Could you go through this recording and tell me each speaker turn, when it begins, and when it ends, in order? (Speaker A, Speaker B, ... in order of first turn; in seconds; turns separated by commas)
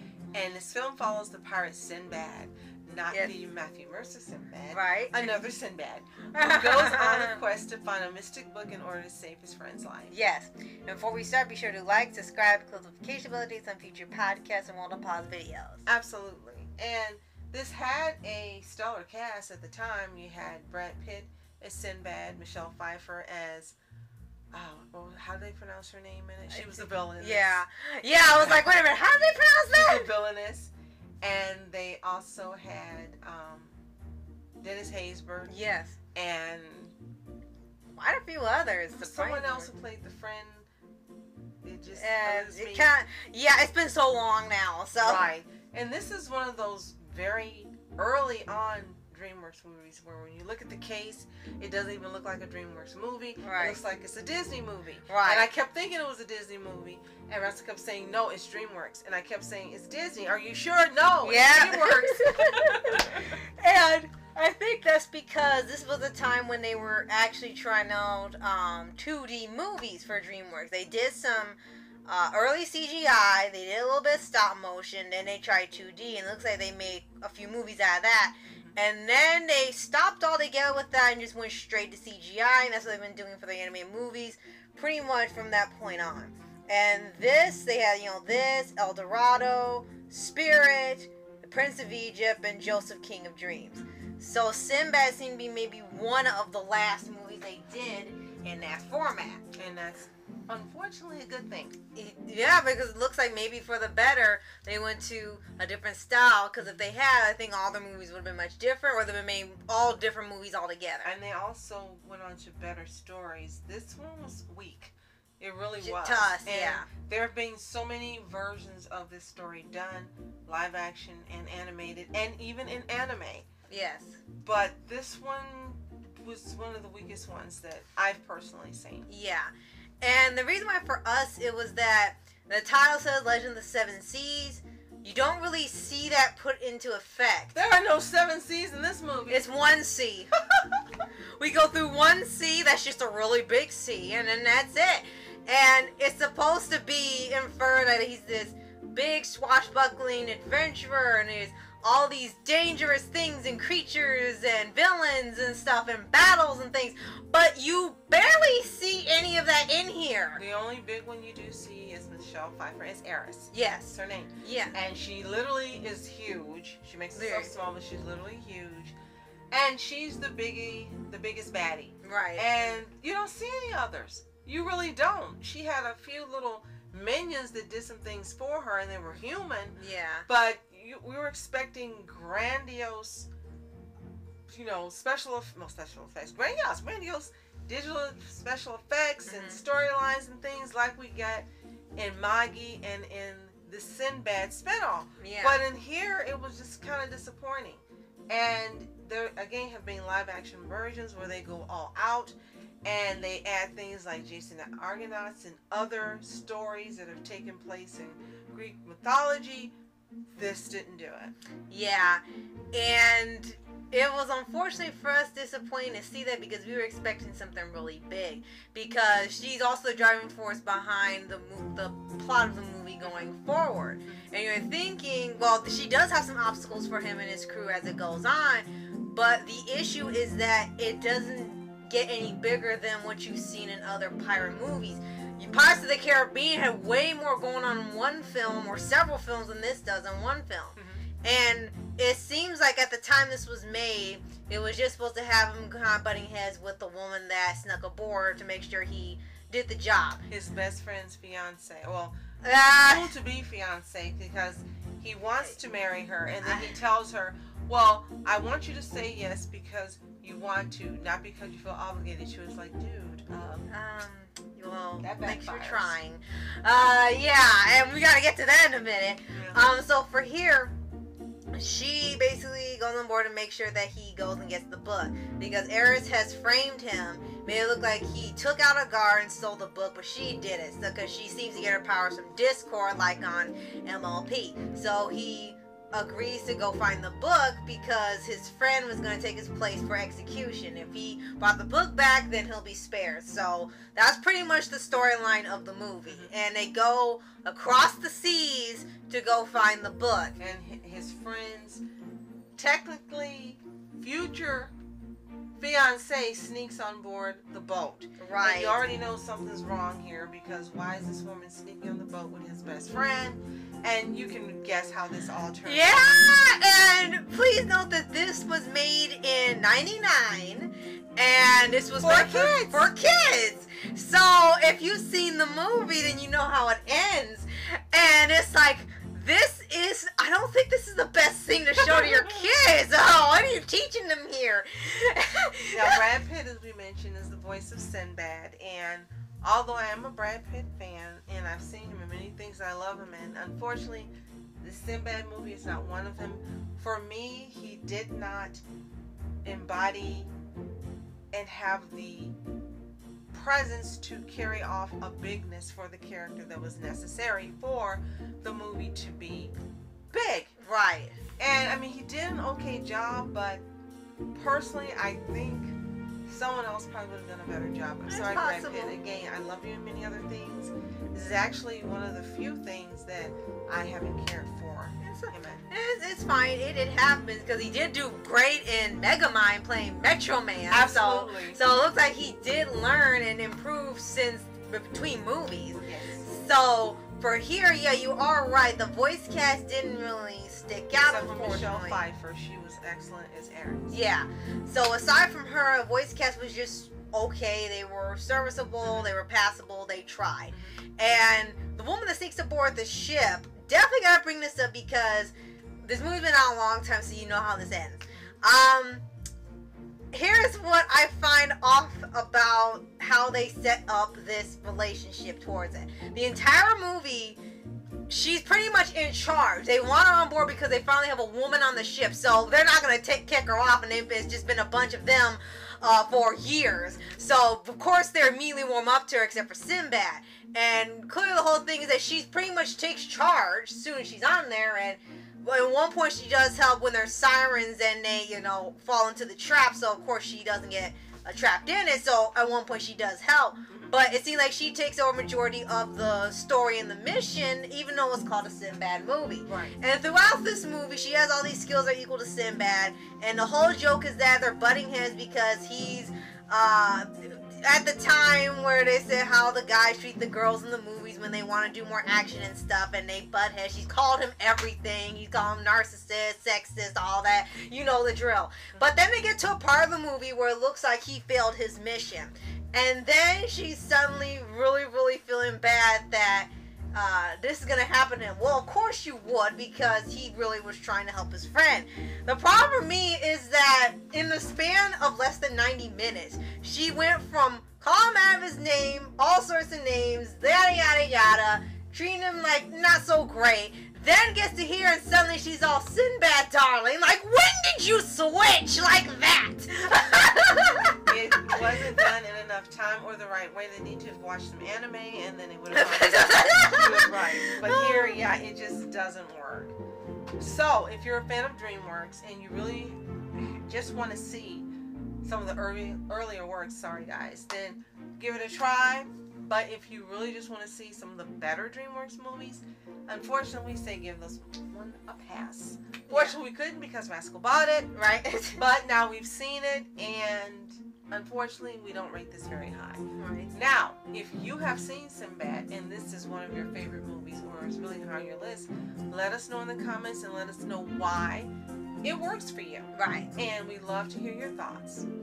Speaker A: 0.3-10.1, Speaker B: 3.1-3.4, Speaker B: 4.7-5.4, Speaker B: 6.3-7.4, Speaker B: 10.1-15.8, Speaker A: 15.9-23.8, Speaker A: 24.5-27.6, Speaker B: 26.5-30.1, Speaker A: 28.2-28.7, Speaker A: 29.7-33.8, Speaker A: 34.6-35.5, Speaker B: 35.5-36.0, Speaker A: 36.1-36.9, Speaker B: 37.9-39.7, Speaker A: 38.9-40.7, Speaker A: 41.6-42.9, Speaker B: 41.9-45.3, Speaker A: 45.0-63.2, Speaker B: 53.4-53.8, Speaker B: 55.1-55.5, Speaker B: 61.2-99.5, Speaker A: 99.5-101.8, Speaker B: 102.0-111.2, Speaker A: 111.0-123.5, Speaker B: 115.8-116.9, Speaker B: 123.7-124.2, Speaker A: 124.4-129.1, Speaker B: 129.1-137.6, Speaker A: 137.5-139.4, Speaker B: 139.3-140.4, Speaker B: 141.4-160.4, Speaker A: 160.4-169.0, Speaker B: 163.5-164.8, Speaker B: 167.1-167.6, Speaker A: 169.5-183.3, Speaker B: 172.0-172.8, Speaker B: 179.8-180.3, Speaker A: 184.5-209.7, Speaker B: 189.2-189.6, Speaker B: 195.2-195.7, Speaker A: 210.3-211.3, Speaker B: 211.7-212.2, Speaker B: 212.7-250.2, Speaker A: 240.8-241.0, Speaker A: 250.3-252.2, Speaker B: 252.4-253.2, Speaker A: 252.7-263.7, Speaker B: 256.4-256.8, Speaker B: 263.7-270.7, Speaker A: 265.0-265.9, Speaker A: 269.3-269.7, Speaker B: 271.6-300.4, Speaker A: 296.1-296.3, Speaker A: 300.4-301.8, Speaker A: 302.6-304.7, Speaker A: 305.6-316.0, Speaker B: 308.2-308.8, Speaker B: 315.6-336.0, Speaker A: 322.0-322.9, Speaker A: 335.7-348.6, Speaker A: 349.4-350.3, Speaker A: 351.3-352.4, Speaker A: 353.3-359.6, Speaker A: 360.1-360.5, Speaker B: 360.6-361.2, Speaker A: 361.4-363.6, Speaker A: 364.3-365.8, Speaker A: 366.3-375.6, Speaker B: 368.1-369.0, Speaker B: 375.0-392.1, Speaker A: 380.7-381.6, Speaker A: 385.8-386.3, Speaker A: 391.0-394.0, Speaker B: 393.9-409.0, Speaker B: 410.1-417.4, Speaker B: 418.1-502.1, Speaker A: 449.5-449.7, Speaker A: 501.1-509.8, Speaker B: 505.7-508.2, Speaker A: 510.4-514.7, Speaker A: 515.2-528.0, Speaker B: 526.1-526.4, Speaker B: 527.9-528.7, Speaker A: 528.5-541.5, Speaker B: 533.2-533.6, Speaker A: 542.0-545.1, Speaker B: 542.9-543.3